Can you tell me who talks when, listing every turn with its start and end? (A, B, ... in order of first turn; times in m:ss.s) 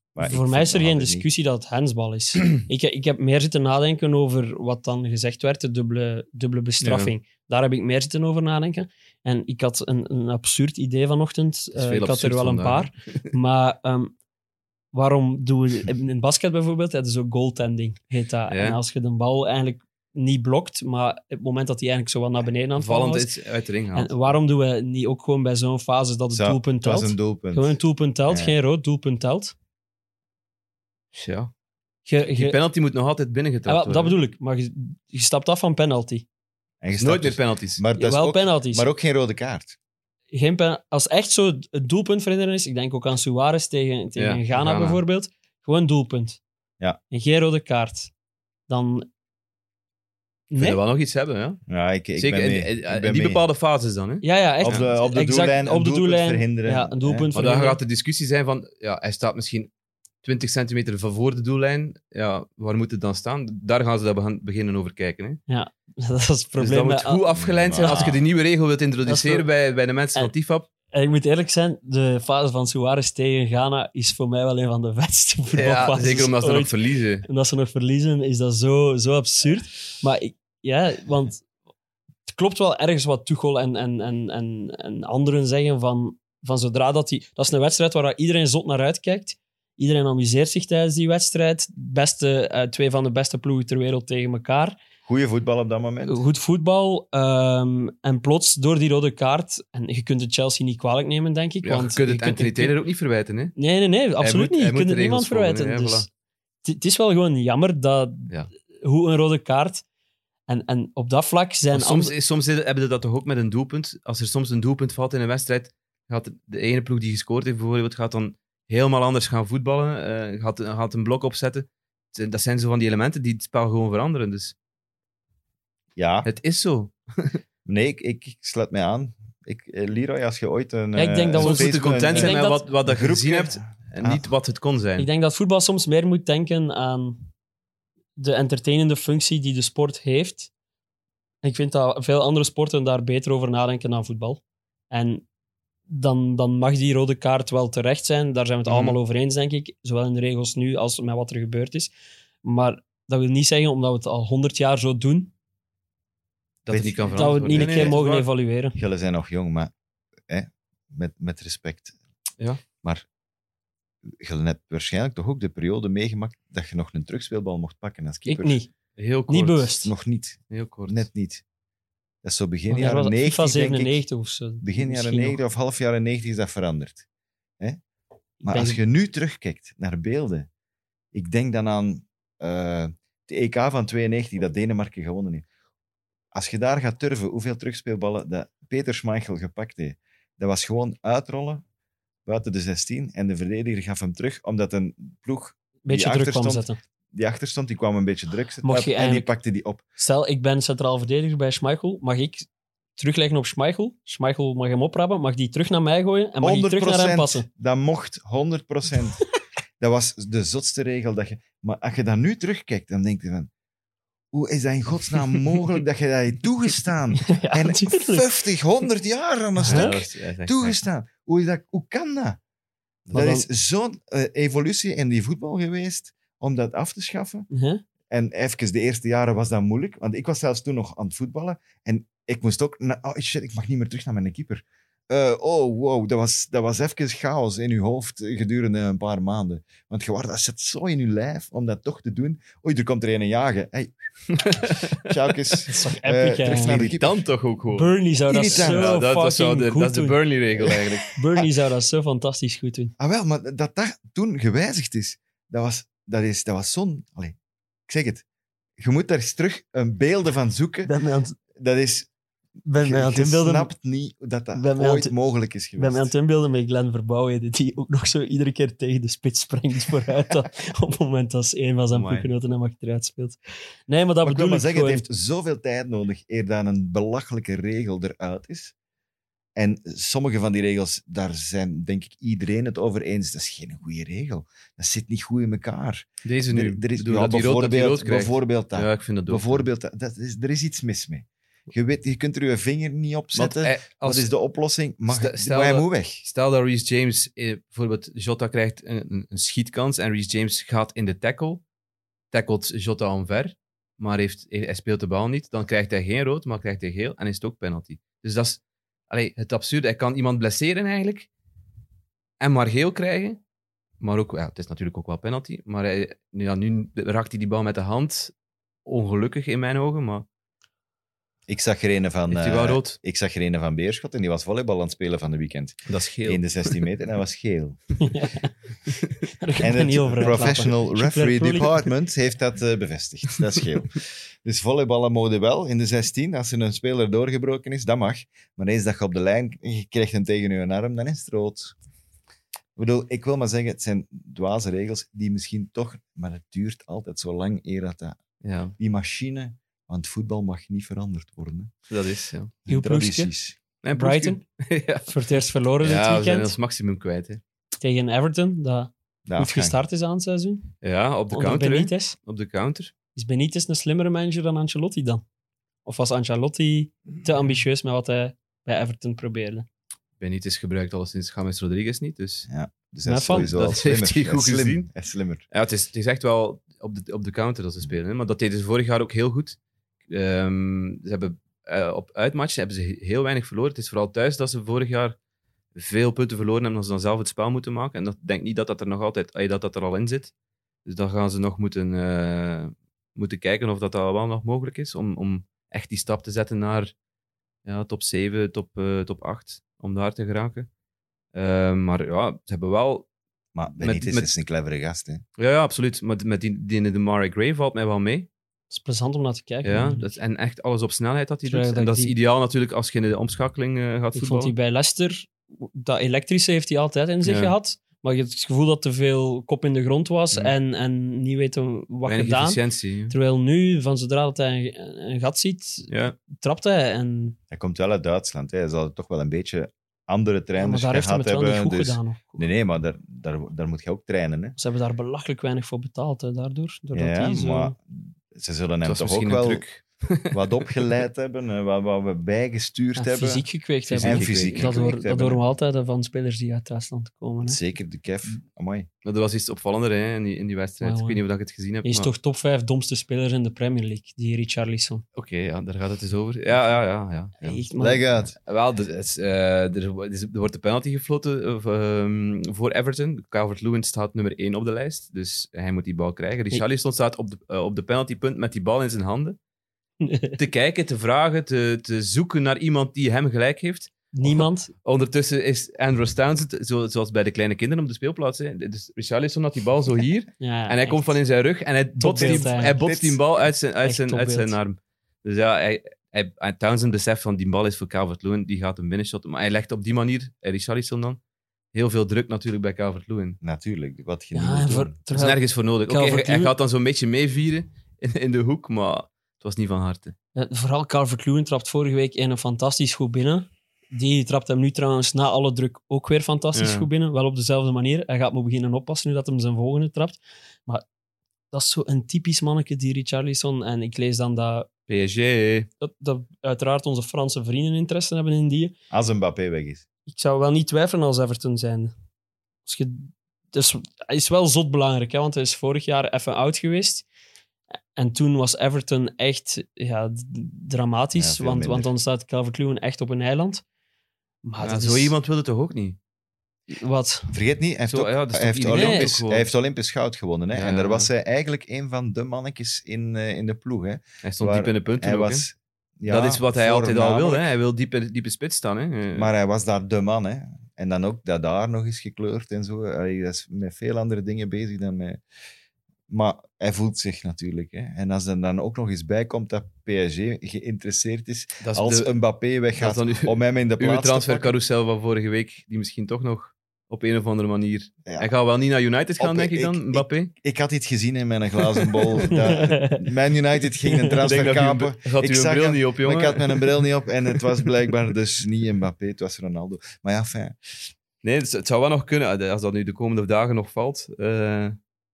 0:00.1-0:01.3 A
0:00.2-0:14.1 B
0:06.8-0:07.1 C
0:11.7-0:13.3 C
0:14.9-0:23.3 B
0:18.5-0:18.8 C
0:22.8-0:24.1 C
0:23.9-0:29.5 B
0:26.3-0:28.6 A
0:31.1-0:31.5 C
0:32.0-0:32.6 B
0:32.3-0:34.2 C
0:33.7-0:36.2 B
0:36.8-0:39.7 A
0:36.9-0:37.8 C
0:38.0-0:38.9 B
0:40.3-0:46.4 B
0:44.2-0:45.0 C
0:47.1-0:48.1 B
0:48.7-0:49.1 B
0:50.5-0:50.8 B
0:50.6-0:51.6 C
0:51.7-0:53.4 A
0:52.2-0:54.8 C
0:54.2-0:57.8 B
0:54.6-0:57.3 A
0:57.3-0:59.7 C
1:00.2-1:05.4 C
1:05.5-1:08.1 B
1:06.6-1:10.7 C
1:07.3-1:08.2 A
1:09.0-1:09.5 B
1:10.9-1:21.4 B
1:15.5-1:17.3 C
1:22.3-1:34.8 B
1:35.0-1:36.2 A
1:36.0-1:42.8 B
1:41.6-1:43.6 C
1:43.6-1:46.1 B
1:44.2-1:46.1 C
1:46.6-1:49.8 B
1:50.5-1:52.1 B
1:51.7-2:04.6 C
2:06.0-2:06.3 A
2:06.2-2:07.4 C
2:07.6-2:14.3 A
2:10.9-2:12.6 B
2:11.4-2:15.1 C
2:15.0-2:17.3 B
2:18.2-2:20.5 B
2:21.4-2:25.2 B
2:25.9-2:31.9 B
2:28.6-2:29.0 C
2:32.4-2:35.3 B
2:36.6-2:38.2 C
2:36.7-2:38.0 A
2:37.1-2:38.8 B
2:38.7-2:39.7 A
2:40.3-2:42.0 A
2:44.1-2:48.6 A
2:48.2-2:48.7 B
2:49.0-2:49.7 C
2:49.3-2:49.9 B
2:49.8-2:51.4 A
2:50.5-2:51.0 C
2:52.2-2:54.0 A
2:52.7-2:55.4 B
2:54.6-2:57.0 A
2:58.4-3:00.5 A
2:58.4-2:58.8 B
3:01.1-3:05.4 A
3:06.3-3:11.6 A
3:12.2-3:19.8 A
3:15.8-3:16.8 B
3:18.6-3:19.3 B
3:20.0-3:27.5 B
3:26.4-3:29.2 A
3:29.8-3:33.5 A
3:34.3-3:42.4 A
3:37.2-3:38.3 B
3:39.6-3:40.0 B
3:39.6-3:40.8 C
3:43.1-3:47.5 A
3:43.1-3:43.4 B
3:47.5-3:47.8 B
3:48.1-4:07.2 A
4:04.3-4:05.6 C
4:05.7-4:06.9 B
4:06.6-4:08.0 C
4:07.7-4:10.2 B
4:08.3-4:09.0 A
4:08.5-4:11.2 C
4:11.1-4:12.9 B
4:13.0-4:17.4 A
4:17.9-4:18.2 A
4:18.8-4:20.9 A
4:20.9-4:21.4 B
4:21.6-4:22.1 A
4:22.6-4:23.7 B
4:22.7-4:26.1 A
4:24.6-4:25.1 B
4:25.8-4:35.0 B
4:31.9-4:32.3 C
4:34.2-4:38.7 A
4:39.6-4:56.2 A
4:46.2-4:49.6 C
4:53.3-4:54.3 C
4:55.1-5:01.6 C
5:02.3-5:11.3 C
5:12.4-5:13.4 C
5:14.0-5:18.3 C
5:18.8-5:20.3 C
5:21.5-5:27.8 A
5:22.3-5:23.0 C
5:25.9-5:26.8 C
5:28.0-5:28.5 B
5:29.4-5:31.9 B
5:29.6-5:41.7 A
5:42.8-5:48.2 A
5:48.4-5:48.7 C
5:48.8-5:51.7 A
5:51.9-5:52.5 C
5:52.6-5:53.6 A
5:52.7-5:53.3 B
5:53.8-5:55.1 C
5:53.9-5:54.4 B
5:55.1-5:56.6 B
5:55.8-5:57.4 C
5:57.8-6:00.7 B
5:59.3-5:59.8 A
6:00.8-6:02.9 C
6:01.3-6:02.2 B
6:03.1-6:05.2 B
6:05.8-6:09.6 B
6:10.2-6:12.5 C
6:12.5-6:15.4 A
6:13.0-6:13.5 B
6:13.3-6:14.9 C
6:15.5-6:25.2 C
6:25.7-6:30.3 C
6:30.9-6:36.9 C
6:37.6-6:40.7 C
6:41.3-6:43.1 C
6:43.6-6:45.2 A
6:43.8-6:44.3 C
6:45.4-6:48.3 C
6:48.7-6:50.2 B
6:49.6-6:54.5 C
6:51.5-6:52.1 B
6:54.1-7:07.4 B
6:57.2-6:57.5 C
7:02.0-7:03.1 C
7:05.9-7:06.2 C
7:07.5-7:14.6 A
7:10.6-7:12.5 B
7:14.6-7:17.7 B
7:16.9-7:19.6 A
7:18.8-7:21.0 C
7:20.3-7:23.4 A
7:23.0-7:27.6 B
7:23.9-7:24.8 C
7:24.0-7:25.4 A
7:27.4-7:28.9 A
7:29.0-7:32.1 C
7:30.8-7:31.2 B
7:31.8-7:35.0 B
7:35.1-7:37.6 C
7:37.4-7:38.0 B
7:37.7-7:38.3 A
7:38.4-7:49.4 C
7:50.0-7:50.4 B
7:50.4-8:11.2 C
7:54.1-7:54.7 B
8:00.4-8:01.1 B
8:02.0-8:02.8 B
8:02.2-8:03.2 A
8:03.8-8:04.6 B
8:11.7-8:13.4 C
8:13.4-8:15.0 A
8:14.3-8:16.5 B
8:15.1-8:20.1 C
8:20.4-8:30.8 B
8:26.5-8:26.9 C
8:31.5-8:34.7 B
8:34.9-8:35.7 C
8:35.8-8:38.7 B
8:38.9-8:39.8 A
8:40.1-8:41.9 B
8:42.6-8:47.0 B
8:48.0-8:53.6 B
8:51.1-8:51.9 A
8:54.4-8:55.1 B
8:54.6-8:56.0 C
8:56.7-8:57.3 B
8:57.3-9:07.5 A
8:57.9-8:59.5 C
8:58.7-8:59.1 B
9:00.5-9:01.1 C
9:04.2-9:05.4 C
9:06.1-9:09.3 C
9:09.1-9:15.2 A
9:16.1-9:24.6 A
9:21.6-9:22.2 C
9:22.7-9:30.3 C
9:29.2-9:40.6 A
9:32.3-9:33.0 B
9:33.9-9:34.2 B
9:34.2-9:36.8 C
9:41.2-9:44.8 C